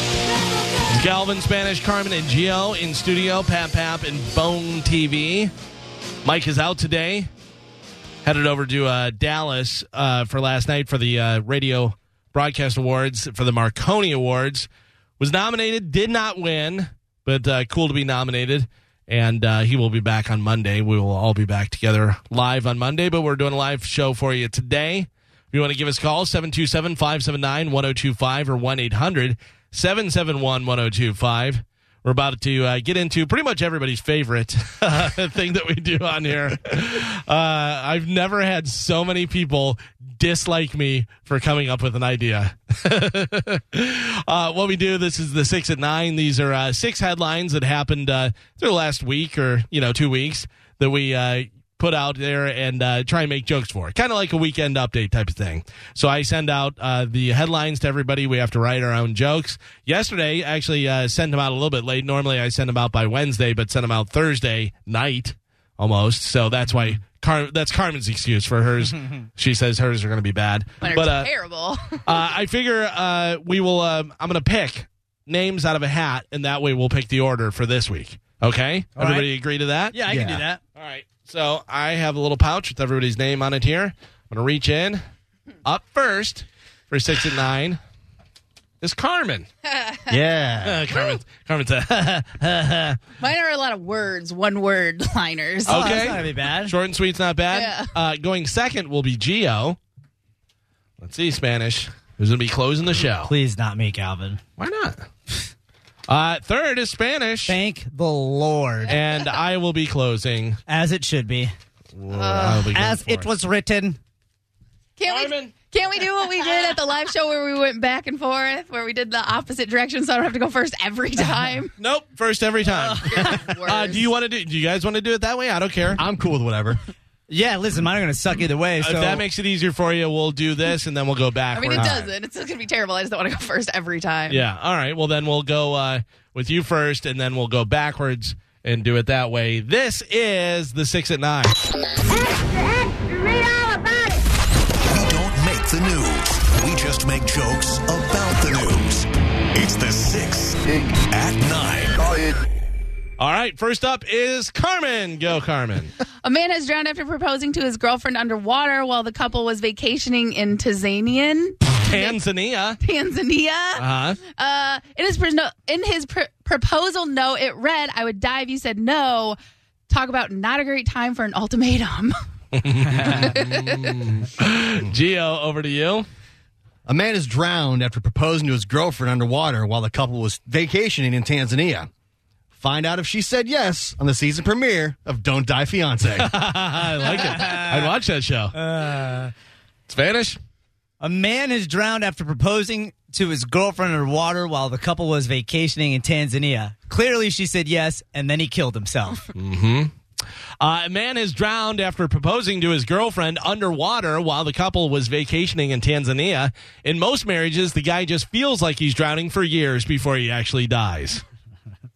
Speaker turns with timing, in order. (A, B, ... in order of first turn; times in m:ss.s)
0:00.9-0:05.5 A
0:06.2-0:07.3 A
0:08.2-1:11.3 A
1:10.8-1:12.0 B
1:12.0-1:20.0 A
1:19.0-1:19.3 C
1:19.9-1:20.6 C
1:20.1-1:20.4 D
1:20.8-1:25.0 A
1:25.6-1:27.8 A
1:28.8-1:29.5 A
1:29.7-1:30.2 B
1:30.1-1:30.8 D
1:30.6-1:33.0 A
1:33.2-1:35.9 B
1:35.7-1:39.8 A
1:35.7-1:36.8 C
1:37.5-1:37.9 B
1:41.0-1:43.3 A
1:43.2-1:44.4 C
1:44.6-1:45.1 A
1:46.1-1:47.6 A
1:47.5-1:49.0 C
1:48.9-1:50.6 A
1:50.7-1:51.5 C
1:52.0-1:53.3 A
1:52.1-1:52.7 B
1:52.7-1:54.0 C
1:55.0-2:01.7 B
1:55.1-1:55.5 A
2:01.8-2:06.0 A
2:02.9-2:04.1 B
2:06.0-2:06.8 D
2:07.3-2:09.2 C
2:08.8-2:12.1 A
2:11.5-2:14.4 B
2:14.3-2:21.6 A
2:24.9-2:32.3 E
2:33.2-2:35.9 A
2:36.2-2:42.2 B
2:41.7-2:42.8 A
2:42.8-2:49.4 B
2:43.8-2:44.2 A
2:49.9-2:52.1 B
2:52.5-2:56.1 A
2:53.0-2:54.1 B
2:56.9-3:01.9 D
3:02.6-3:06.3 D
3:06.2-3:08.5 A
3:07.0-3:08.0 C
3:08.5-3:09.3 C
3:09.9-3:10.4 A
3:11.0-3:19.2 C
3:19.4-3:19.9 A
3:20.6-3:31.2 A